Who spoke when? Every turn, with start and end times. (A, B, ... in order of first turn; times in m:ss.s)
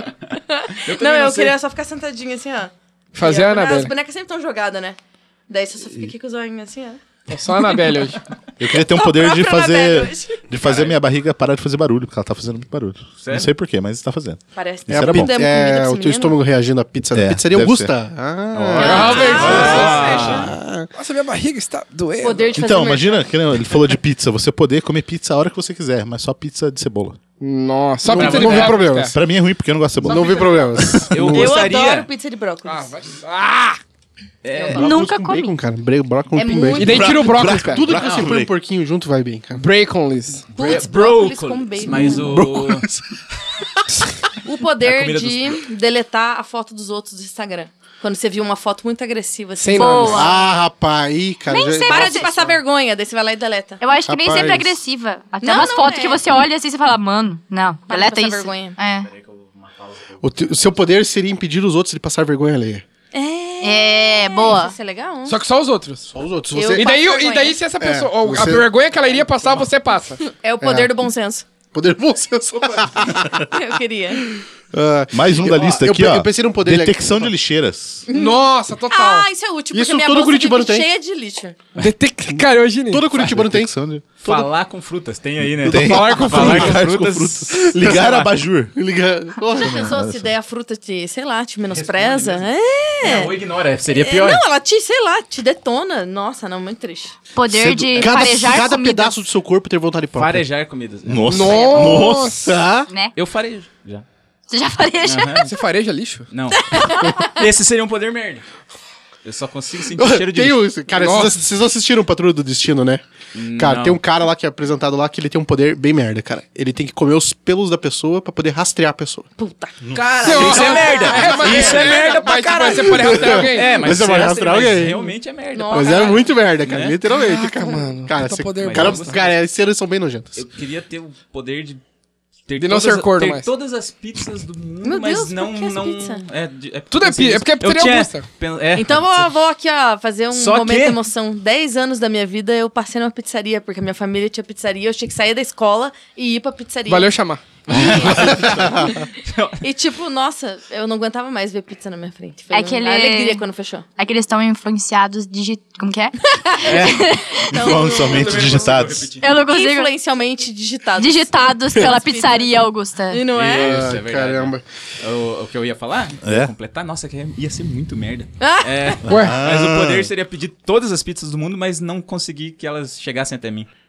0:00.5-0:05.0 A
0:00.8-0:01.6 B
0:03.2-0:03.9 C
0:05.5-0:07.0 A
0:07.3-0:08.2 C
0:08.6-0:15.3 D
0:08.8-0:10.5 A
0:10.6-0:11.0 B
0:13.2-0:13.5 B
0:14.6-0:16.4 A
0:14.9-0:20.9 E
0:17.1-0:18.0 D
0:18.5-0:20.5 D
0:18.8-0:20.5 A
0:18.8-0:20.2 C
0:19.2-0:20.5 B
0:20.9-0:22.6 C
0:22.2-0:23.3 A
0:22.6-0:27.2 D
0:27.4-0:29.2 C
0:28.0-0:29.2 E
0:28.1-0:28.8 B
0:29.0-0:30.4 D
0:30.0-0:31.6 E
0:30.1-0:30.6 A
0:31.0-0:32.1 B
0:31.2-0:32.9 A
0:32.7-0:33.8 C
0:34.4-0:34.9 B
0:34.5-0:35.0 A
0:34.7-0:35.5 F
0:34.8-0:39.7 E
0:36.4-0:37.1 F
0:36.5-0:36.8 A
0:36.8-0:37.8 C
0:36.8-0:38.5 D
0:38.0-0:38.3 B
0:39.6-0:40.5 C
0:40.5-0:42.3 A
0:40.6-0:42.9 B
0:41.9-0:43.0 E
0:44.4-0:50.5 A
0:44.8-0:45.6 B
0:49.6-0:50.2 C
0:49.8-0:50.4 F
0:50.1-0:52.6 E
0:51.5-0:52.3 F
0:51.9-0:53.8 A
0:53.8-0:59.1 F
0:54.1-0:54.8 E
0:55.4-0:56.2 A
0:57.9-0:58.8 A
0:59.1-1:00.6 B
1:00.2-1:02.8 E
1:03.1-1:05.4 A
1:03.6-1:04.8 F
1:05.3-1:06.1 C
1:06.1-1:06.9 E
1:06.5-1:07.6 A
1:06.7-1:10.2 C
1:07.8-1:08.7 E
1:10.2-1:11.5 A
1:10.6-1:10.9 E
1:11.7-1:13.5 E
1:13.5-1:14.2 A
1:14.7-1:17.3 E
1:15.1-1:18.1 D
1:18.1-1:21.6 A
1:18.1-1:19.3 C
1:19.7-1:20.9 E
1:21.8-1:23.0 C
1:22.3-1:23.8 E
1:23.1-1:24.5 D
1:24.2-1:28.3 B
1:25.6-1:28.7 D
1:25.7-1:26.8 C
1:27.8-1:28.1 E
1:28.7-1:29.9 E
1:29.6-1:30.3 D
1:29.6-1:33.4 A
1:31.7-1:32.4 B
1:33.0-1:34.4 B
1:33.9-1:37.2 A
1:37.3-1:39.2 F
1:37.5-1:40.5 E
1:40.1-1:41.9 B
1:41.1-1:42.6 D
1:41.3-1:42.5 C
1:41.6-1:42.1 F
1:42.4-1:42.9 E
1:42.9-1:43.2 F
1:43.2-1:44.0 B
1:44.5-1:45.5 F
1:45.0-1:45.5 B
1:45.4-1:46.3 C
1:46.3-1:48.4 B
1:46.7-1:47.3 F
1:49.2-1:50.7 B
1:50.0-1:53.0 E
1:51.0-1:51.4 C
1:53.3-1:54.0 B
1:53.6-1:59.3 E
1:59.4-1:59.8 A
1:59.8-2:00.7 D
1:59.9-2:07.0 B
2:00.2-2:03.9 C
2:00.6-2:01.5 A
2:01.6-2:01.9 E
2:02.9-2:05.1 E
2:05.5-2:06.4 A
2:05.7-2:10.4 E
2:07.2-2:09.2 C
2:08.6-2:09.4 B
2:10.4-2:11.8 B
2:12.5-2:19.3 B
2:12.6-2:13.5 C
2:14.8-2:16.2 A
2:16.9-2:18.2 C
2:18.8-2:27.2 A
2:20.3-2:21.0 B
2:26.9-2:27.4 C
2:27.7-2:29.6 B
2:27.7-2:28.3 A
2:28.0-2:28.6 D
2:29.6-2:33.8 A
2:32.5-2:33.4 F
2:34.0-2:37.5 F
2:36.5-2:36.9 A
2:36.6-2:37.1 B
2:37.5-2:38.7 A
2:37.5-2:39.1 D
2:37.7-2:39.3 B
2:39.2-2:39.9 F
2:39.3-2:43.8 A
2:41.0-2:43.3 F
2:43.3-2:53.7 B
2:43.5-2:44.6 E
2:46.2-2:46.5 D
2:48.4-2:49.0 A
2:49.1-2:50.1 D
2:49.1-2:49.4 C